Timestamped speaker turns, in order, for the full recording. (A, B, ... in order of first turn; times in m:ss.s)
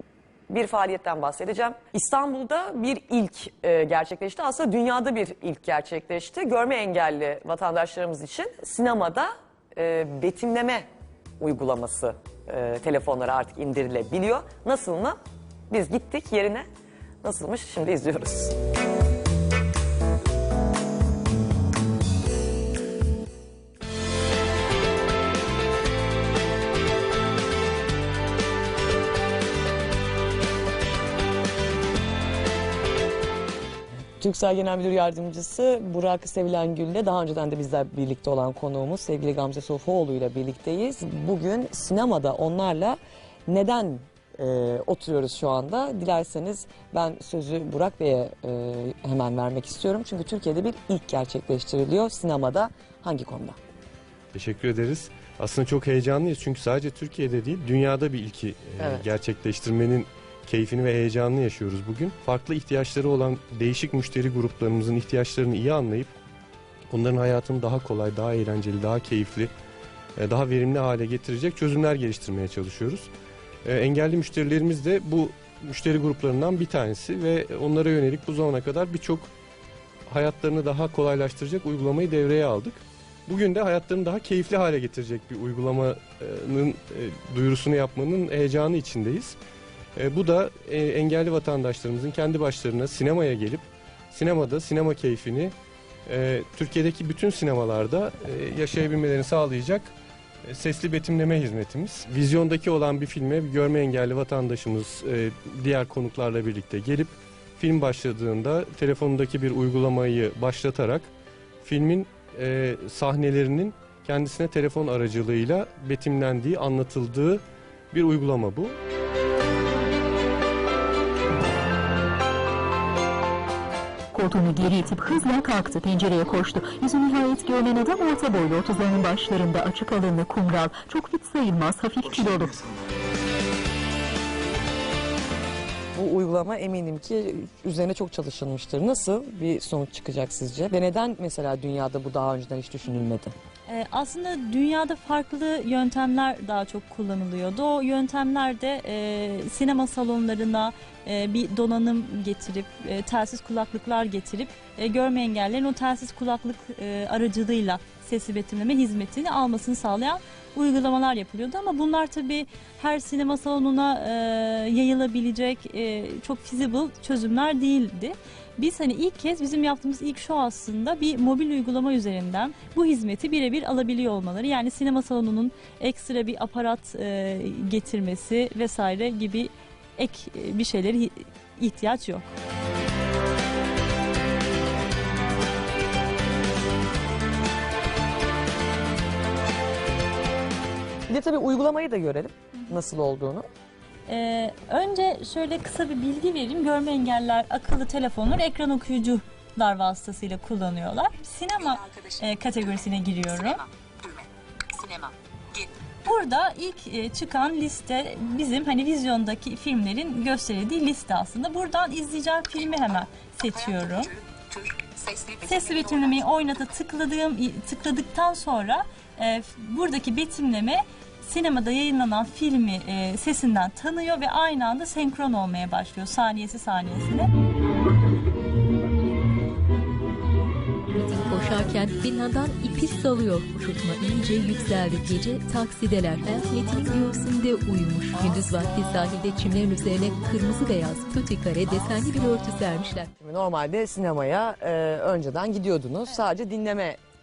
0:00.5-0:10.9 A
0:11.4-0:15.2 A
0:15.7-0:16.7 A
0:17.2-0:18.6 A
0:34.2-0:53.6 A
0:54.3-1:06.2 B
0:58.8-0:59.0 A
1:06.9-1:09.5 B
1:10.2-1:13.1 B
1:13.7-1:19.3 B
1:20.1-1:29.4 B
1:30.0-1:35.6 B
1:36.1-1:39.9 B
1:40.4-1:51.1 B
1:51.6-1:58.8 B
2:04.1-2:12.6 C
2:15.9-2:23.3 A
2:23.7-3:02.3 D
3:11.1-3:13.5 A
3:14.1-3:23.6 D
3:24.8-3:47.3 D
3:50.9-4:03.1 E
4:03.2-4:07.0 A